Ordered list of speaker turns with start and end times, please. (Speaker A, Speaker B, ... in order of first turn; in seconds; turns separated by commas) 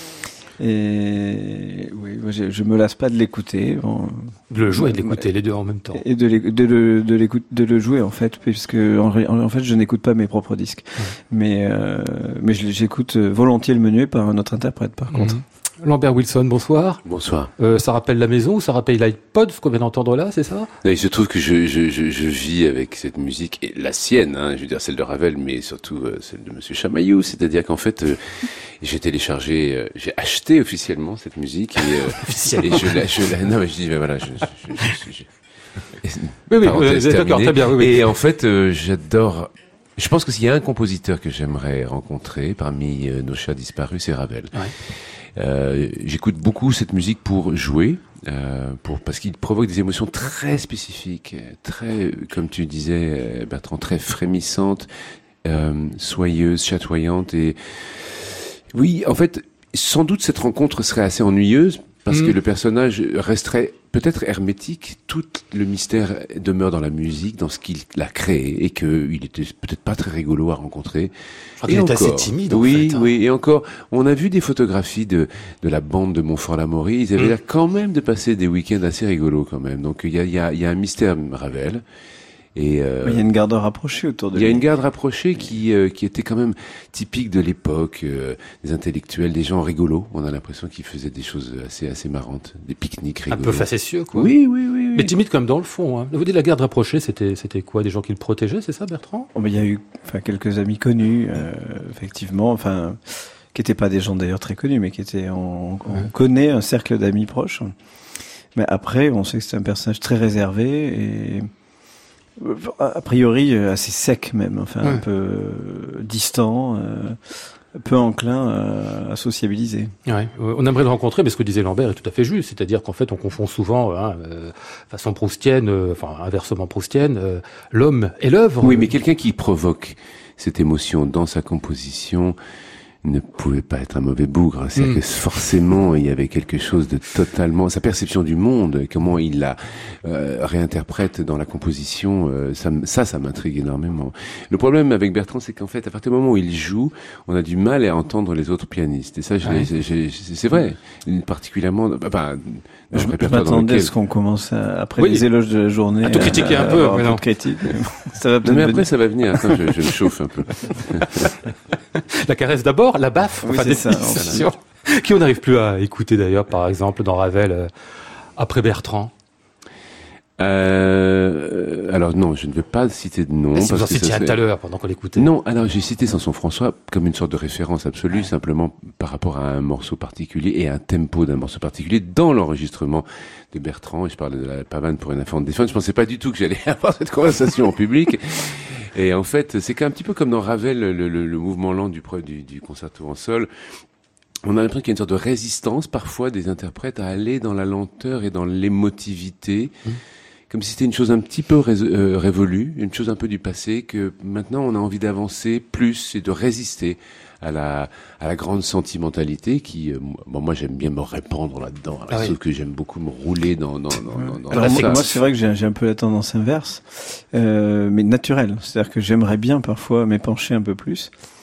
Speaker A: 0.6-5.3, Speaker B: 4.5-6.0, Speaker A: 5.9-15.4, Speaker B: 15.1-17.0, Speaker C: 17.1-17.5, Speaker B: 17.6-20.7, Speaker C: 20.8-35.3, Speaker B: 32.2-33.0, Speaker C: 35.9-54.9, Speaker B: 36.5-38.0, Speaker C: 55.4-81.8, Speaker B: 62.1-62.4, Speaker B: 71.6-73.1, Speaker C: 82.5-83.2, Speaker A: 83.0-84.6, Speaker C: 84.3-95.1, Speaker B: 93.3-94.3, Speaker B: 94.9-99.3, Speaker A: 99.3-107.7, Speaker A: 108.5-111.5, Speaker A: 112.3-119.9, Speaker B: 120.1-128.9, Speaker C: 128.6-132.3, Speaker C: 133.0-153.9, Speaker A: 152.9-159.6, Speaker B: 155.0-155.2, Speaker B: 156.0-157.2, Speaker C: 158.4-161.3, Speaker B: 161.9-167.7, Speaker A: 163.4-164.5, Speaker B: 168.3-169.1, Speaker C: 170.4-174.4, Speaker B: 173.5-175.3, Speaker C: 175.2-193.7, Speaker C: 194.4-199.8, Speaker C: 200.5-215.1, Speaker A: 214.3-221.1, Speaker B: 214.5-215.0